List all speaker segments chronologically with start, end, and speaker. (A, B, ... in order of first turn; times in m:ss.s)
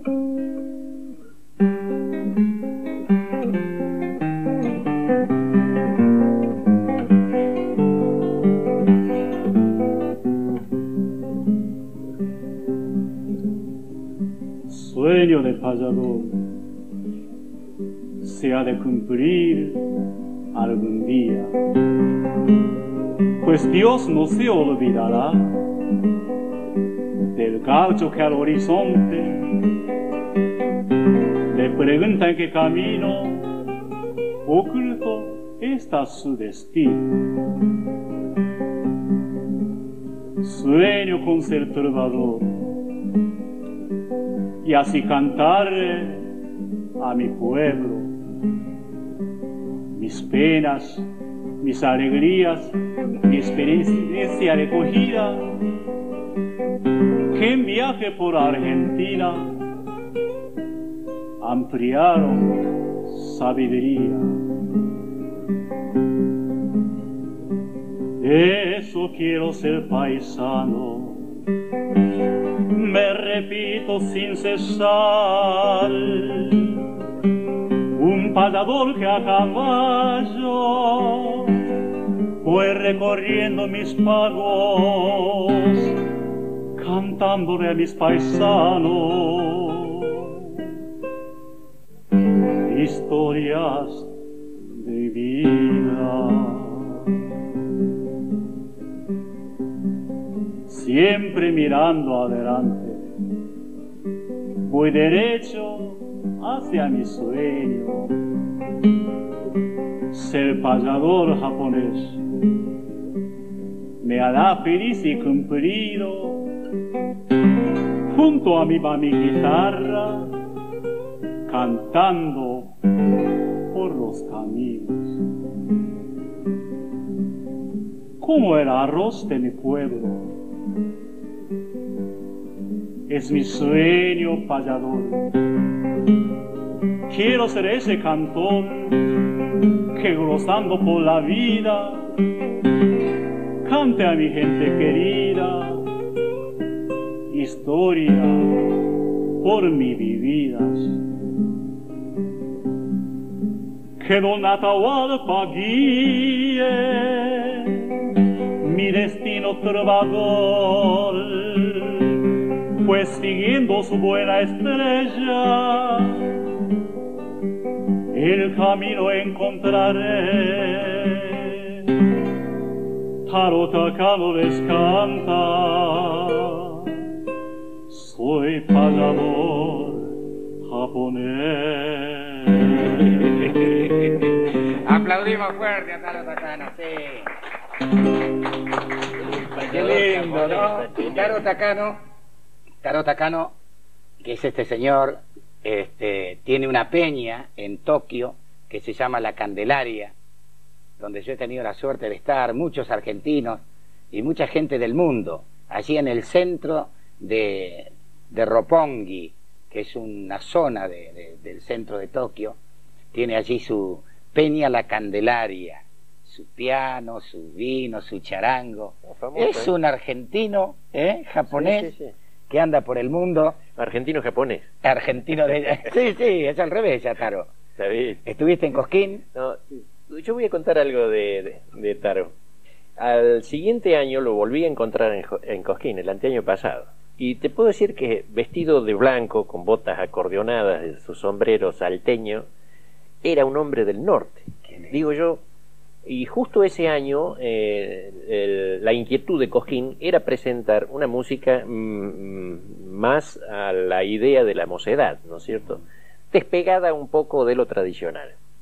0:14.7-0:16.5 A
0:18.2-0:19.8 A
0:20.5-0:21.5 A
0:23.4-0:25.6 A
0:27.2-0:29.6 A
0:31.5-0:33.5 A
0:34.4-0:37.2 A
0:40.4-0:42.7 A
0:44.6-0:46.3 A
0:47.0-0:48.1 A
0:49.9-0:51.1 A
0:51.6-0:55.5 A
0:57.3-0:59.5 A
1:01.4-1:04.3 A
1:08.2-1:11.3 A
1:12.6-1:16.8 A
1:17.9-1:21.6 A
1:22.4-1:26.0 A
1:26.8-1:30.6 A
1:32.3-1:34.1 A
1:34.6-1:37.1 A
1:40.6-1:43.1 A
1:44.6-1:48.1 A
1:50.1-1:52.2 A
1:54.0-1:56.5 A
1:58.1-2:00.3 A
2:01.5-2:02.7 A
2:03.7-2:05.2 A
2:08.2-2:10.4 A
2:13.1-2:15.4 A
2:17.1-2:19.0 A
2:19.9-2:22.1 A
2:23.6-2:25.8 A
2:27.3-2:28.8 A
2:29.4-2:31.0 A
2:34.0-2:42.2 A
2:42.8-2:46.4 A
2:48.1-2:52.0 A
2:53.2-2:57.0 A
2:57.9-3:03.4 A
3:04.7-3:07.3 B
3:09.2-3:11.4 C
3:09.7-3:12.0 B
3:12.8-3:13.5 B
3:14.2-3:20.1 B
3:21.0-3:32.6 B
3:33.1-3:41.9 B
3:39.1-3:39.7 C
3:41.5-3:42.1 C
3:42.5-3:43.6 B
3:43.8-3:44.7 C
3:44.8-3:47.5 B
3:47.8-3:48.2 C
3:48.2-3:49.2 B
3:49.3-3:52.3 C
3:53.0-4:02.4 C
4:03.2-4:05.4 C
4:04.7-4:05.0 B
4:06.0-4:18.3 C